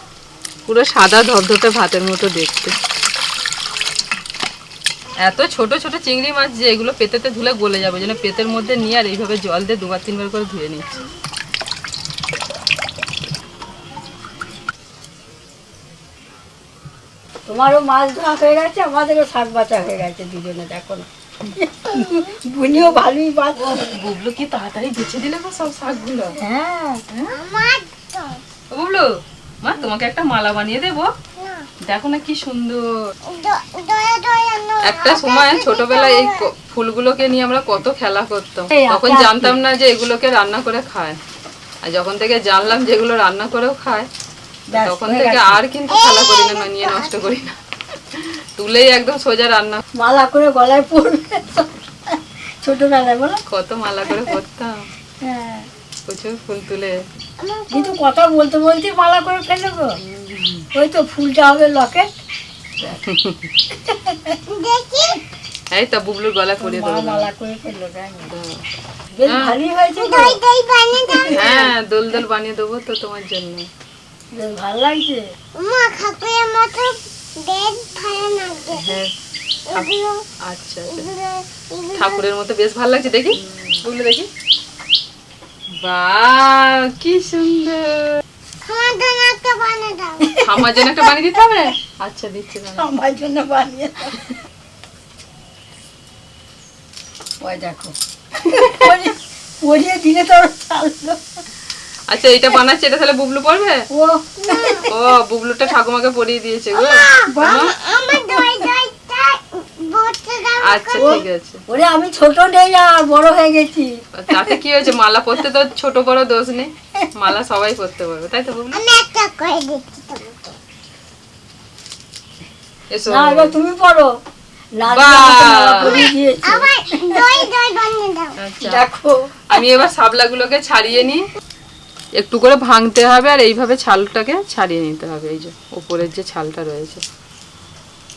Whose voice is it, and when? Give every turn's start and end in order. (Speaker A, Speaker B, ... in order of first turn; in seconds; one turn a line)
Speaker A: 0.7-2.8
Speaker A: 5.2-11.0
Speaker B: 17.5-23.9
Speaker A: 22.8-23.0
Speaker A: 23.5-26.4
Speaker B: 26.4-27.0
Speaker A: 27.1-27.4
Speaker C: 27.3-28.4
Speaker A: 28.7-29.1
Speaker A: 29.6-31.1
Speaker C: 31.4-31.6
Speaker A: 31.9-33.1
Speaker C: 33.3-36.4
Speaker A: 34.8-41.2
Speaker B: 38.7-39.6
Speaker A: 41.8-44.1
Speaker B: 44.7-45.6
Speaker A: 44.7-47.6
Speaker C: 45.9-47.1
Speaker A: 48.1-49.8
Speaker B: 49.9-53.4
Speaker A: 53.5-54.9
Speaker B: 55.2-55.7
Speaker A: 56.1-57.0
Speaker C: 57.4-58.0
Speaker B: 57.7-60.0
Speaker B: 60.6-62.1
Speaker A: 63.1-63.5
Speaker B: 63.8-64.4
Speaker C: 64.5-65.2
Speaker A: 65.7-67.3
Speaker B: 66.6-68.3
Speaker A: 68.3-68.6
Speaker B: 69.1-70.4
Speaker A: 69.3-69.6
Speaker C: 70.0-71.5
Speaker B: 70.9-71.7
Speaker A: 71.3-73.7
Speaker B: 74.3-75.2
Speaker C: 75.6-78.8
Speaker A: 78.7-79.1
Speaker C: 79.7-80.2
Speaker A: 80.5-81.1
Speaker C: 80.9-82.2
Speaker A: 82.0-84.3
Speaker A: 85.8-88.2
Speaker C: 88.6-90.3
Speaker B: 90.3-90.7
Speaker A: 90.4-92.9
Speaker B: 92.8-94.3
Speaker B: 97.4-97.9
Speaker B: 98.5-101.2
Speaker A: 102.1-103.8
Speaker B: 103.9-104.9
Speaker C: 104.4-104.8
Speaker A: 104.9-107.8
Speaker C: 106.8-111.2
Speaker B: 107.3-108.7
Speaker A: 110.6-111.6
Speaker B: 111.0-114.5
Speaker A: 114.1-118.8
Speaker C: 118.7-120.5
Speaker A: 122.9-123.6
Speaker B: 123.1-124.1
Speaker B: 124.8-127.5
Speaker A: 124.9-126.1
Speaker C: 125.8-128.3
Speaker A: 128.4-128.8
Speaker B: 128.6-129.3
Speaker A: 129.5-131.2
Speaker A: 132.2-137.0